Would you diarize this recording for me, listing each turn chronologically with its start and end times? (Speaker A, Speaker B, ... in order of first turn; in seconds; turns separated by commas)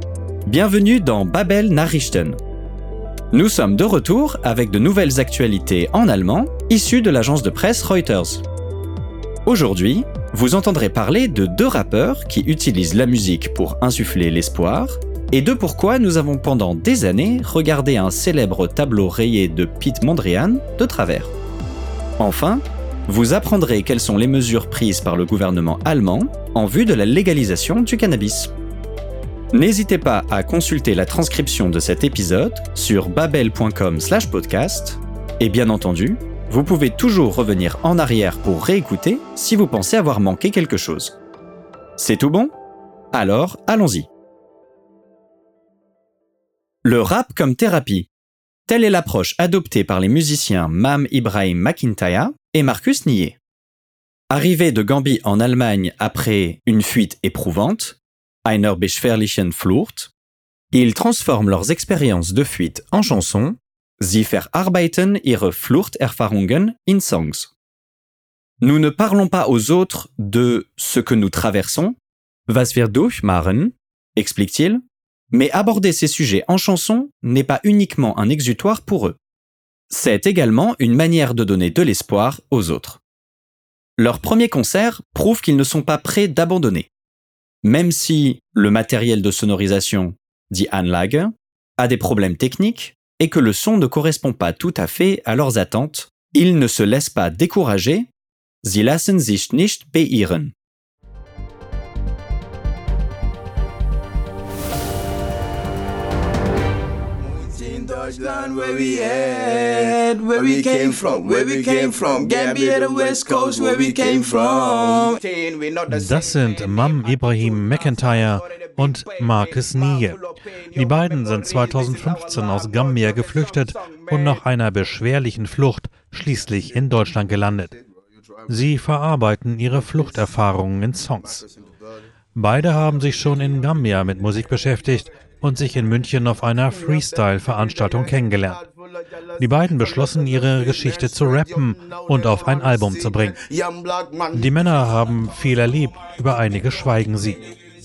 Speaker A: 0.5-2.4, Speaker A: 3.3-8.4, Speaker A: 9.5-21.3, Speaker A: 22.2-28.5, Speaker A: 29.5-41.2, Speaker A: 42.0-42.5, Speaker A: 43.1-44.1, Speaker A: 46.9-48.1, Speaker A: 48.7-53.4, Speaker A: 54.3-60.1, Speaker A: 60.7-67.5, Speaker A: 68.6-72.0, Speaker A: 72.5-79.2, Speaker A: 79.9-83.0, Speaker A: 84.0-86.9, Speaker A: 87.6-98.1, Speaker A: 98.6-100.5, Speaker B: 107.5-124.4, Speaker C: 115.9-120.2, Speaker C: 120.7-127.7, Speaker C: 128.5-131.4, Speaker B: 129.9-130.3, Speaker B: 131.2-131.7, Speaker C: 132.3-138.6, Speaker B: 133.1-133.5, Speaker B: 136.7-144.8, Speaker C: 139.4-143.4, Speaker C: 144.3-147.4